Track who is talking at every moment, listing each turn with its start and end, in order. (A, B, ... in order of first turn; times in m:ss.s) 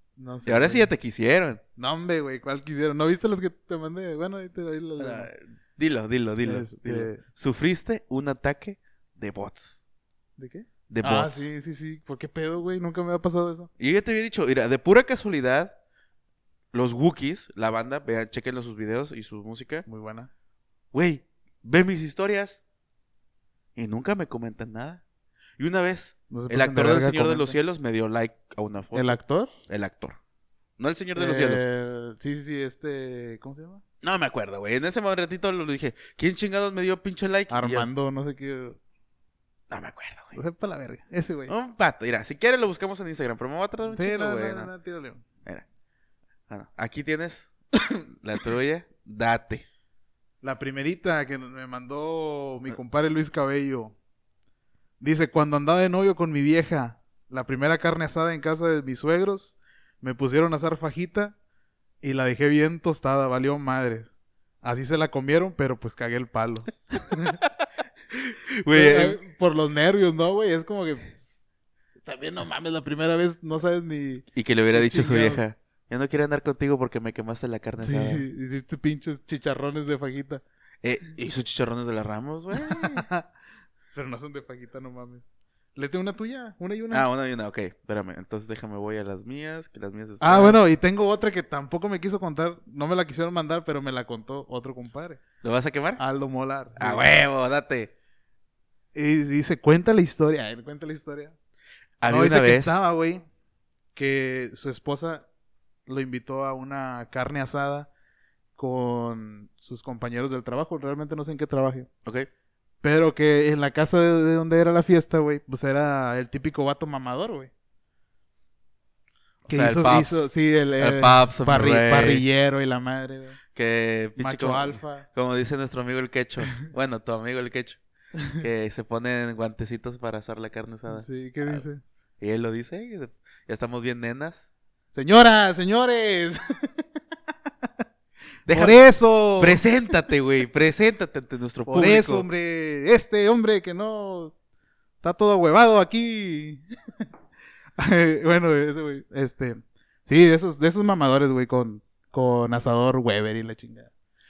0:00.2-0:00.9 A
0:00.4-0:01.6 B
0:01.8-0:05.3 A
0:05.0-0:09.8 B
0:06.4-0:07.2 A
0:10.4-0:13.7 A
0:10.9-0:11.5 B
0:13.8-0:15.7 B
0:16.7-0:19.8 B
0:19.8-0:20.3 A
0:20.9-0:22.6 B
0:23.8-0:25.0 B
0:25.6-0:29.1 B
0:26.3-0:27.6 A
0:28.9-0:29.5 A
0:29.7-0:30.2 B
0:30.8-0:31.6 B
0:31.1-0:33.8 A
0:34.0-0:37.9 B
0:37.5-0:38.8 A
0:39.7-0:40.4 B
0:40.3-0:41.5 A
0:41.5-0:44.7 B
0:43.8-0:45.2 A
0:46.5-0:47.5 B
0:48.1-0:49.6 B
0:50.4-0:53.9 A
0:55.0-1:01.3 A
1:02.0-1:04.1 A
1:04.6-1:07.4 A
1:08.1-1:09.2 B
1:08.7-1:11.3 A
1:12.0-1:15.4 A
1:14.3-1:18.2 B
1:17.8-1:20.4 A
1:20.8-1:23.0 B
1:22.5-1:23.3 A
1:23.9-1:25.2 A
1:25.8-1:27.1 A
1:26.9-1:30.6 B
1:30.2-1:35.2 A
1:35.4-1:36.0 B
1:36.0-1:37.0 A
1:36.8-1:37.9 B
1:38.9-1:41.4 A
1:42.0-1:42.9 B
1:42.0-1:43.2 A
1:43.9-1:45.2 A
1:45.9-1:47.9 A
1:48.6-1:51.9 A
1:52.8-1:57.5 A
1:59.5-2:02.2 B
1:59.5-2:03.4 A
2:03.5-2:07.8 B
2:04.2-2:05.0 A
2:08.4-2:11.6 B
2:10.9-2:11.8 A
2:12.2-2:14.5 B
2:14.9-2:16.8 A
2:18.5-2:18.8 B
2:18.5-2:19.6 A
2:19.4-2:22.3 B
2:21.7-2:24.3 A
2:25.0-2:26.6 A
2:27.8-2:33.9 A